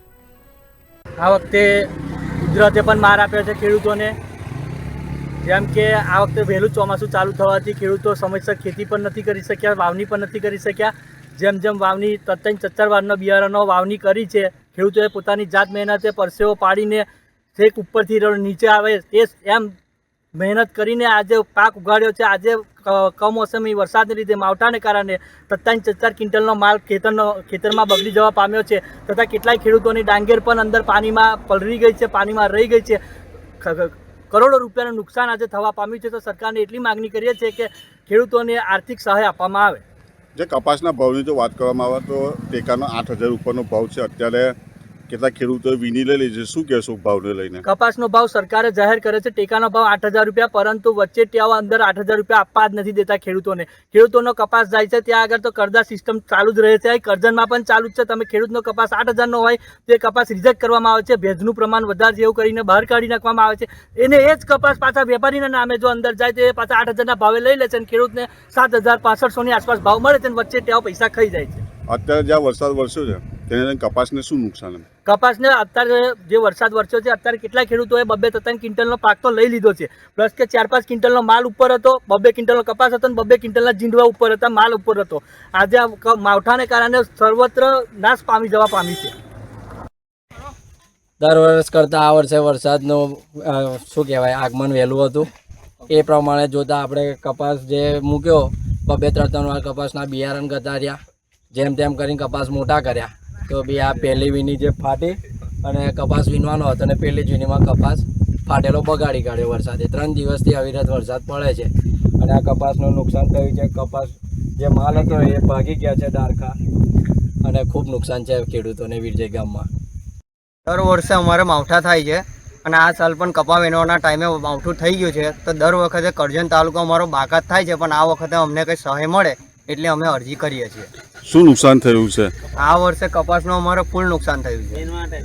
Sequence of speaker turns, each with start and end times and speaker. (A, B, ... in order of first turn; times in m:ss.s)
0:01.2-0:01.9 A
0:02.4-0:04.1 A
0:05.4-0:19.7 A
0:20.4-0:33.0 A
0:33.6-0:39.8 A
0:40.4-0:44.5 B
0:45.1-0:47.6 B
0:47.6-1:11.6 A
1:11.9-1:14.8 B
1:15.0-1:29.1 A
1:31.2-1:35.3 C
1:35.9-1:41.0 C
1:41.5-1:56.6 C
1:57.4-1:59.7 C
2:00.6-2:10.9 D
2:11.2-2:12.3 B
2:12.5-2:14.8 D